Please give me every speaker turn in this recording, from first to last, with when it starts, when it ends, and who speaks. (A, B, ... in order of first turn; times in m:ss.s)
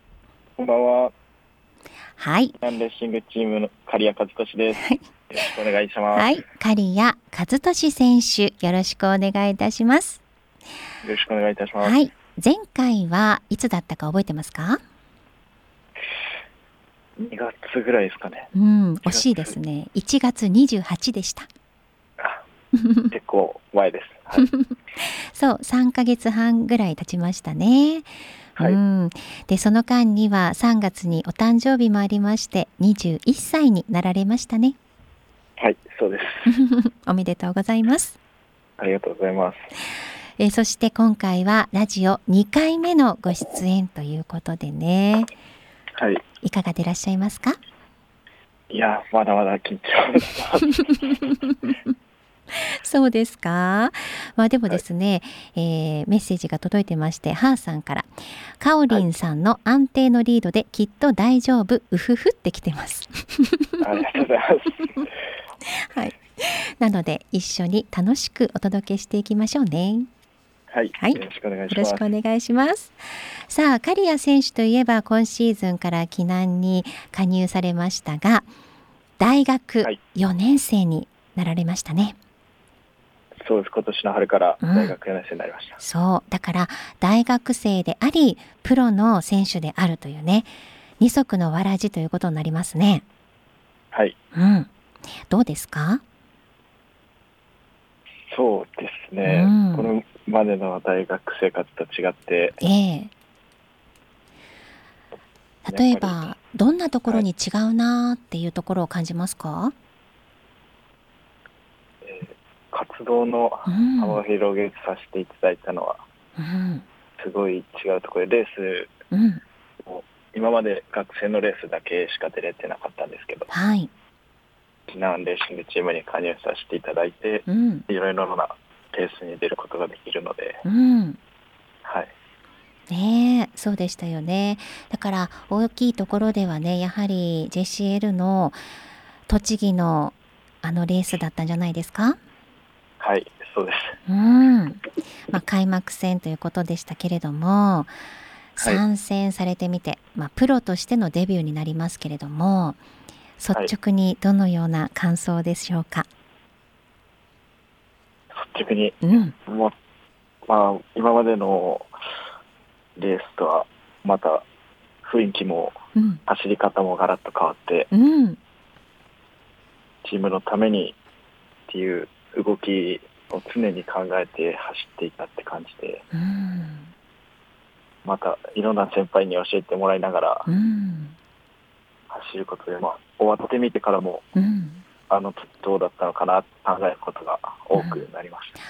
0:00.6-0:01.1 A
0:02.2-0:02.6 B
0:02.6-0:06.4 A
0:06.1-0:10.2 B
0:11.0-0:12.0 A
0:11.8-0:14.8 B
0:17.2-0:18.5 A
0:18.5-0:21.5 B
0:19.0-0:19.6 A
0:22.7-0:23.1 B
0:23.1-0:24.5 A
0:24.4-0:34.8 B
0:35.6-0:36.5 A
0:36.5-0:38.2 B
0:38.8-0:39.6 A
0:40.4-0:45.3 B
0:46.0-0:46.2 A
0:46.4-0:47.6 B
0:48.7-0:50.7 A
0:51.4-0:51.8 B
0:52.6-1:03.8 B
1:03.8-1:05.0 A
1:05.7-1:10.1 B
1:10.7-1:12.0 A
1:11.0-1:18.5 B
1:19.2-1:22.2 B
1:23.4-1:25.8 A
1:24.6-1:25.0 B
1:25.8-1:33.0 B
1:33.9-1:34.2 A
1:34.3-1:34.7 B
1:35.3-1:36.0 B
1:38.3-1:42.6 A
1:39.2-1:39.9 B
1:42.6-1:43.1 B
1:45.6-1:49.7 B
1:45.7-1:46.3 A
1:52.0-1:56.0 A
1:53.7-1:54.2 B
1:56.4-1:56.8 B
1:57.2-1:58.9 A
1:59.1-1:59.4 B
1:59.8-2:03.5 A
2:03.5-2:03.9 B
2:04.9-2:10.6 A
2:07.5-2:07.9 B
2:10.6-2:11.2 B
2:11.8-2:12.1 A
2:12.9-2:18.6 B
2:19.3-2:22.2 B
2:23.0-2:24.0 A
2:24.1-2:27.9 B
2:28.6-2:32.8 B
2:33.4-2:36.1 B
2:38.4-2:39.7 A
2:39.0-2:39.4 B
2:40.5-2:41.9 A
2:43.0-2:44.4 A
2:45.0-2:47.9 A
2:46.0-2:46.2 B
2:47.9-2:48.4 B
2:50.0-2:51.0 A
2:51.7-2:56.0 A
2:56.1-2:56.9 B
2:58.0-3:00.5 A
3:00.5-3:01.2 B
3:02.1-3:04.2 A
3:04.4-3:04.8 B
3:05.1-3:08.5 A
3:07.8-3:08.1 B